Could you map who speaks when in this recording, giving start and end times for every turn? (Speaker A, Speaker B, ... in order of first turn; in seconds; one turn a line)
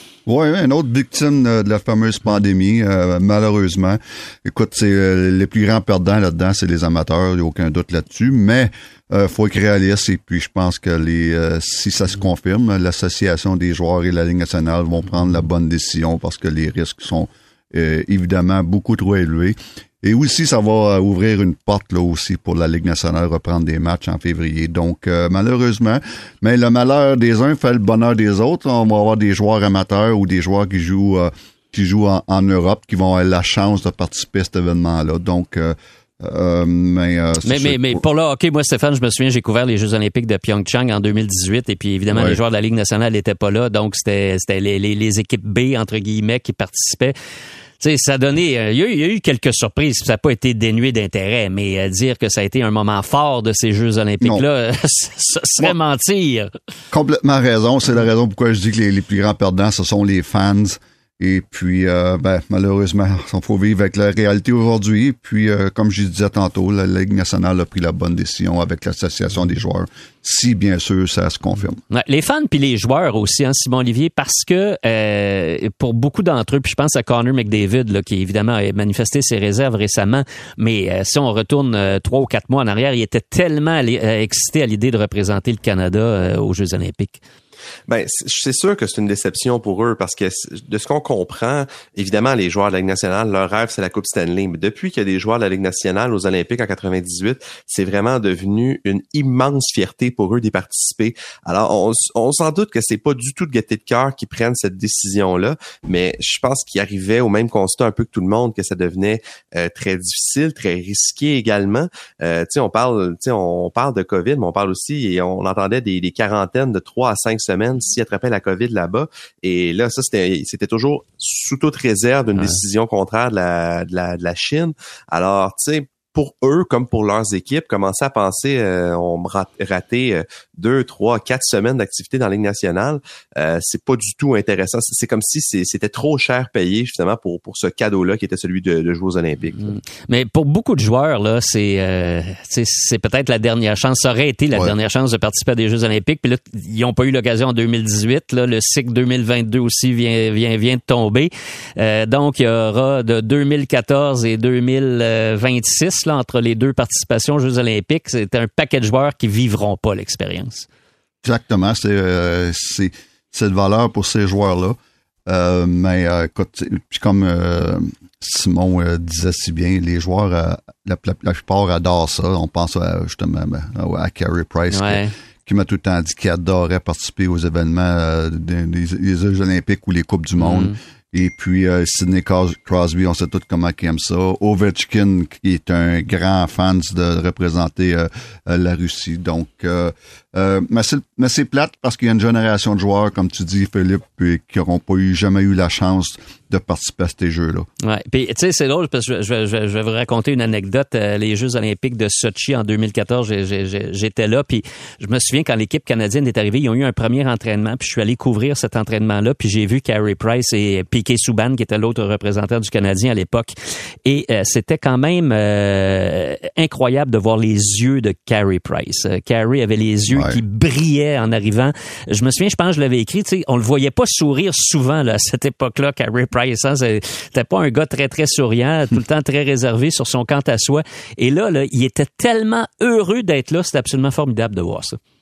Speaker A: 0.2-38.0
Speaker B: 37.4-47.1
Speaker A: 42.1-42.4
Speaker B: 47.8-56.5
Speaker A: 56.9-71.8
Speaker B: 71.9-87.2
Speaker C: 87.9-139.8
Speaker B: 139.6-160.7
Speaker A: 161.2-197.7
Speaker B: 174.7-175.1
Speaker B: 180.4-180.8
Speaker B: 197.8-213.5
Speaker B: 214.0-235.0
Speaker A: 220.1-220.4